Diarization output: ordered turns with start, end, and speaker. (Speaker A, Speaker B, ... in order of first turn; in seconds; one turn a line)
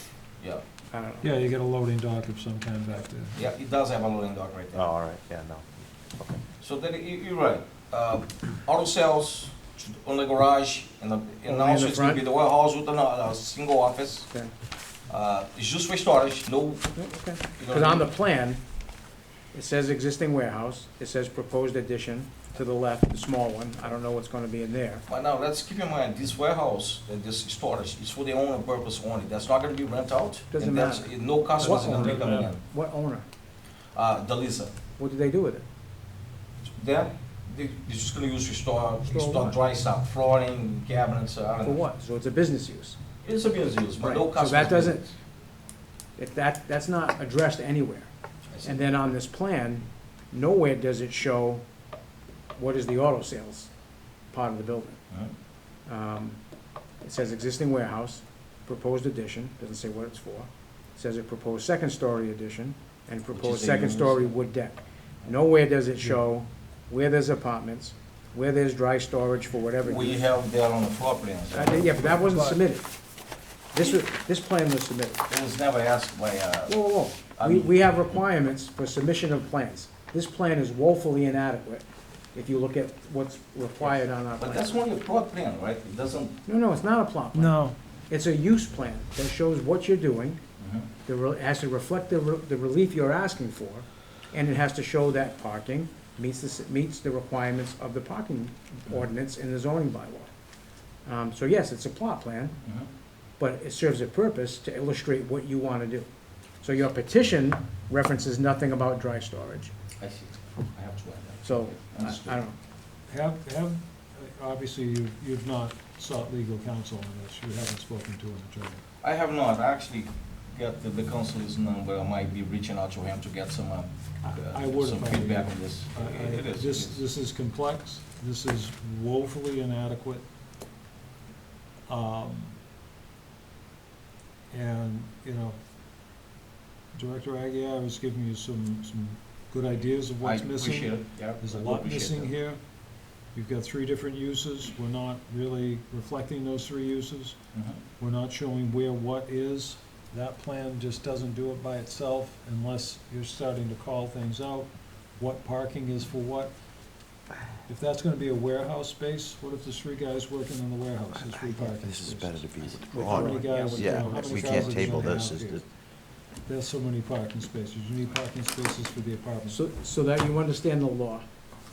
Speaker A: 0.9-1.4
Speaker B: 1.2-3.4
Speaker C: 3.4-4.8
Speaker D: 4.7-6.4
Speaker C: 6.6-14.3
Speaker A: 11.5-12.2
Speaker C: 15.1-17.0
Speaker A: 16.9-18.6
Speaker C: 17.6-18.1
Speaker A: 19.5-25.1
Speaker C: 25.1-32.6
Speaker A: 30.5-33.3
Speaker B: 31.6-32.5
Speaker C: 34.0-34.7
Speaker A: 35.0-35.6
Speaker C: 36.6-41.8
Speaker A: 39.1-39.6
Speaker A: 41.6-43.0
Speaker C: 43.2-45.1
Speaker A: 44.0-45.0
Speaker A: 46.2-48.1
Speaker C: 48.5-48.8
Speaker A: 48.6-51.6
Speaker A: 52.6-53.7
Speaker A: 54.3-55.0
Speaker A: 55.9-56.4
Speaker A: 57.0-70.3
Speaker C: 63.3-64.3
Speaker C: 69.8-72.2
Speaker A: 71.5-72.9
Speaker B: 72.2-72.6
Speaker A: 73.7-75.2
Speaker C: 75.3-78.0
Speaker A: 76.7-81.8
Speaker A: 82.3-84.8
Speaker C: 83.8-86.4
Speaker A: 86.5-87.6
Speaker B: 87.3-87.8
Speaker A: 88.1-90.4
Speaker C: 90.6-90.9
Speaker A: 91.0-100.3
Speaker A: 101.0-102.6
Speaker A: 103.4-106.1
Speaker A: 106.6-109.7
Speaker C: 110.0-112.4
Speaker A: 111.4-112.6
Speaker B: 113.1-118.8
Speaker C: 119.0-127.0
Speaker B: 124.2-130.2
Speaker B: 131.9-132.6
Speaker B: 134.5-135.6
Speaker B: 136.9-142.6
Speaker C: 140.2-142.3
Speaker B: 143.3-147.4
Speaker C: 147.5-147.8
Speaker B: 148.0-156.5
Speaker B: 157.7-165.6
Speaker D: 161.2-165.6
Speaker A: 162.9-165.1
Speaker B: 166.4-169.6
Speaker A: 169.5-171.2